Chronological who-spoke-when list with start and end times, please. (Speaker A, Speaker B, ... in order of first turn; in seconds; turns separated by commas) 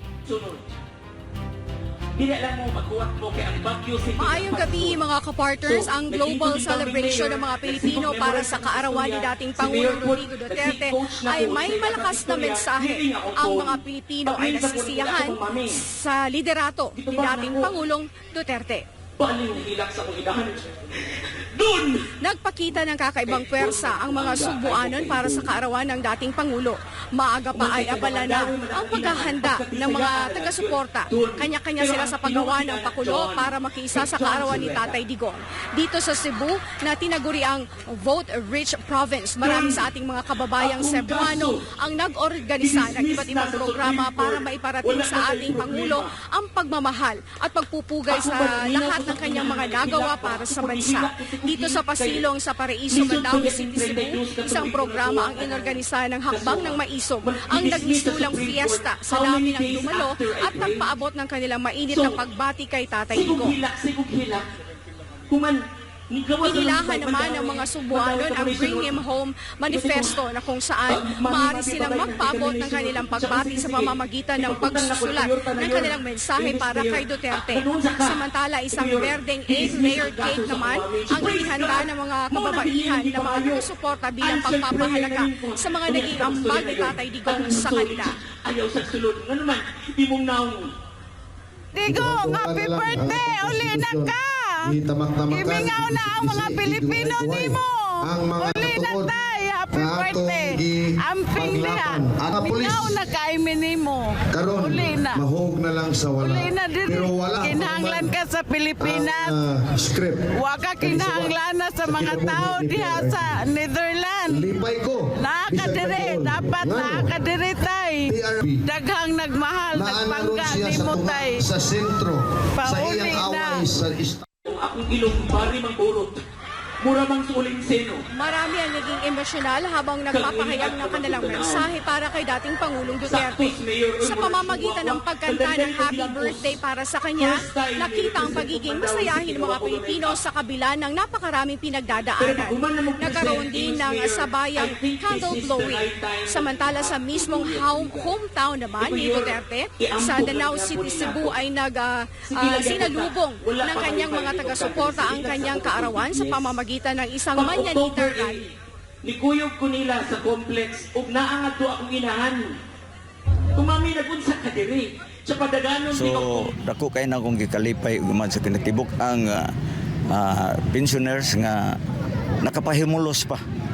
Speaker A: 0.2-0.8, Speaker A: 2.1-5.0, Speaker B: 4.2-18.9, Speaker A: 5.6-15.8, Speaker A: 17.0-17.8, Speaker A: 19.2-22.1, Speaker B: 22.2-63.6, Speaker A: 23.2-25.5, Speaker A: 27.5-35.0, Speaker A: 39.4-39.9, Speaker A: 40.6-41.6, Speaker A: 42.6-46.1, Speaker A: 48.1-52.2, Speaker A: 52.9-55.8, Speaker A: 56.3-60.9, Speaker A: 61.9-62.2, Speaker A: 63.1-64.5, Speaker A: 65.3-69.0, Speaker B: 66.4-88.2, Speaker A: 69.7-70.2, Speaker A: 70.9-78.2, Speaker A: 78.7-83.7, Speaker A: 84.2-90.7, Speaker C: 91.7-105.2, Speaker D: 91.8-94.1, Speaker D: 94.6-99.1, Speaker D: 99.7-103.0, Speaker D: 104.3-108.1, Speaker C: 106.2-109.4, Speaker D: 108.8-110.3, Speaker C: 110.3-114.5, Speaker D: 110.8-113.4, Speaker D: 114.3-117.1, Speaker C: 115.2-121.5, Speaker D: 118.1-118.6, Speaker D: 119.7-124.2, Speaker C: 122.6-123.7, Speaker A: 124.5-126.2, Speaker A: 126.8-128.0, Speaker B: 128.2-158.4, Speaker A: 130.1-131.7, Speaker A: 133.1-136.5, Speaker A: 137.2-140.2, Speaker A: 142.2-148.1, Speaker A: 148.8-151.4, Speaker A: 152.3-156.6, Speaker A: 157.3-158.5, Speaker A: 159.0-162.6, Speaker A: 163.6-166.6, Speaker E: 165.9-169.5, Speaker E: 170.1-171.8, Speaker E: 172.4-173.4